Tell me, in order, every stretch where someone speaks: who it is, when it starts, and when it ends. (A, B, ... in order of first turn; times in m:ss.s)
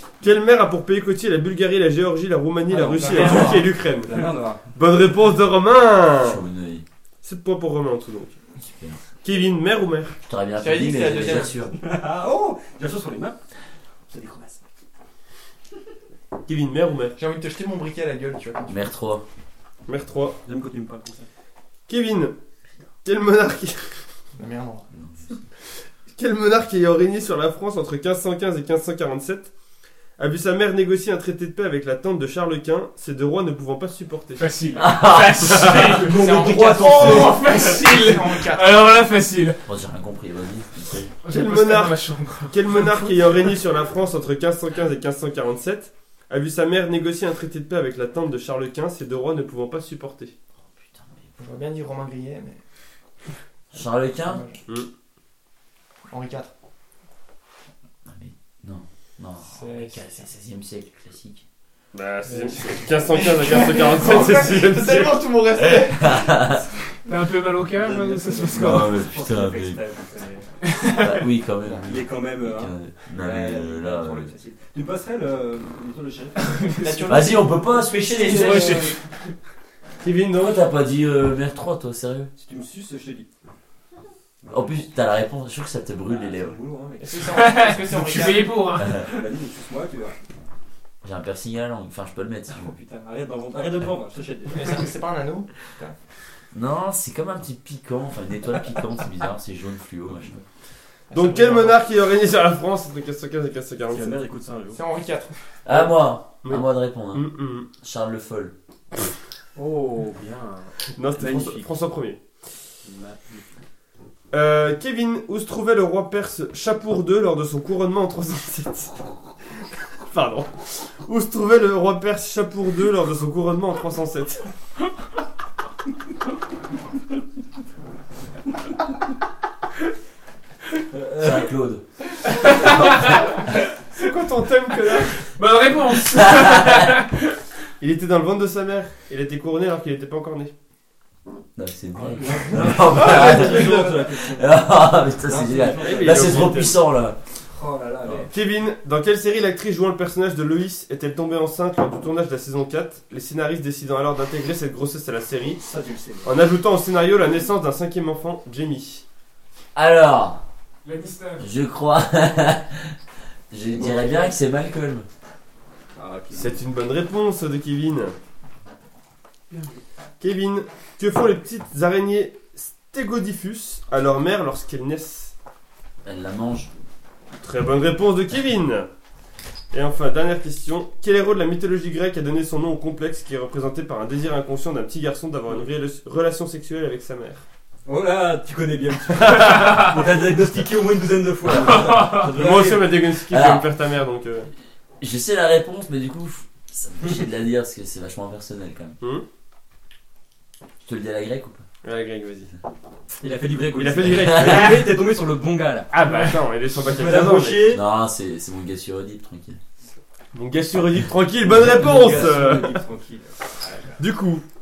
0:00.2-0:06.4 A
0:02.7-0:03.7 B
0:03.1-0:04.6 C
0:06.2-0:06.8 D
0:07.2-0:08.4 A
0:08.6-0:09.0 D
0:09.2-0:10.2 A
0:10.3-0:11.7 D
0:10.6-0:11.6 B
0:11.7-0:13.4 C
0:14.1-0:14.6 C
0:16.4-0:17.2 A
0:17.2-0:18.8 B
0:18.7-0:19.2 D
0:19.9-0:20.4 A
0:20.4-0:21.3 C
0:21.9-0:22.4 A
0:23.0-0:24.0 A
0:24.4-0:24.9 B
0:24.9-0:25.4 D
0:26.1-0:29.5 A
0:30.2-0:34.6 A
0:34.4-0:39.6 E
0:34.7-0:35.8 D
0:35.8-0:37.4 C
0:35.9-0:38.8 B
0:39.7-0:41.1 D
0:41.2-0:43.2 E
0:41.3-0:50.3 A
0:51.4-0:52.6 B
0:53.7-0:54.4 D
0:54.1-0:54.6 B
0:56.1-0:56.5 B
0:58.0-1:01.4 D
0:59.4-1:00.3 B
1:01.9-1:05.3 A
1:03.1-1:06.6 B
1:05.8-1:06.6 D
1:07.0-1:08.9 E
1:07.7-1:10.5 C
1:08.5-1:09.8 D
1:10.7-1:11.1 E
1:10.9-1:14.3 D
1:11.8-1:16.9 C
1:16.4-1:17.0 E
1:16.8-1:19.0 B
1:17.1-1:18.9 D
1:18.2-1:19.0 E
1:20.0-1:20.6 A
1:20.4-1:22.3 D
1:22.4-1:23.3 C
1:24.4-1:24.9 C
1:24.5-1:26.6 D
1:26.0-1:27.3 C
1:27.0-1:28.6 B
1:27.3-1:29.1 E
1:28.8-1:29.1 D
1:29.0-1:30.2 C
1:31.0-1:32.8 D
1:32.6-1:34.9 C
1:34.5-1:36.0 B
1:36.5-1:40.4 D
1:41.1-1:41.7 B
1:41.1-1:44.1 A
1:43.9-1:44.8 C
1:44.7-1:45.3 B
1:45.6-1:48.5 D
1:46.4-1:47.7 A
1:49.6-1:51.7 C
1:51.0-1:52.2 A
1:52.8-1:53.5 C
1:54.3-1:59.0 A
2:00.0-2:04.5 A
2:10.9-2:11.4 C
2:11.2-2:11.8 D
2:12.4-2:13.3 E
2:13.9-2:15.3 A
2:15.1-2:17.4 E
2:16.1-2:17.0 D
2:17.8-2:20.5 A
2:21.6-2:27.2 D
2:22.0-2:24.6 C
2:22.9-2:23.9 B
2:23.0-2:23.9 A
2:25.2-2:26.6 C
2:25.8-2:26.8 A
2:27.5-2:28.3 C
2:28.3-2:35.6 A
2:35.5-2:36.3 C
2:36.2-2:39.0 A
2:39.7-2:40.4 D
2:40.8-2:41.5 E
2:41.4-2:43.0 D
2:43.5-2:45.0 D
2:43.8-2:44.3 C
2:46.0-2:46.6 C
2:46.3-2:48.2 A
2:49.5-2:49.8 E
2:50.2-2:55.3 A
2:56.0-2:56.7 D
2:57.4-2:58.9 A
2:59.7-3:07.4 A
3:07.9-3:13.0 C
3:09.2-3:09.8 A
3:11.5-3:12.4 E
3:12.3-3:14.5 A
3:13.3-3:13.7 D
3:15.0-3:19.0 D
3:19.0-3:19.3 A
3:20.8-3:21.6 D
3:21.8-3:22.5 A
3:23.2-3:25.9 C
3:23.7-3:24.9 A
3:24.0-3:24.7 D
3:25.9-3:26.4 E
3:26.0-3:27.8 A
3:26.8-3:27.8 C
3:27.6-3:29.6 D
3:30.3-3:32.8 A
3:31.5-3:33.3 C
3:34.0-3:34.4 A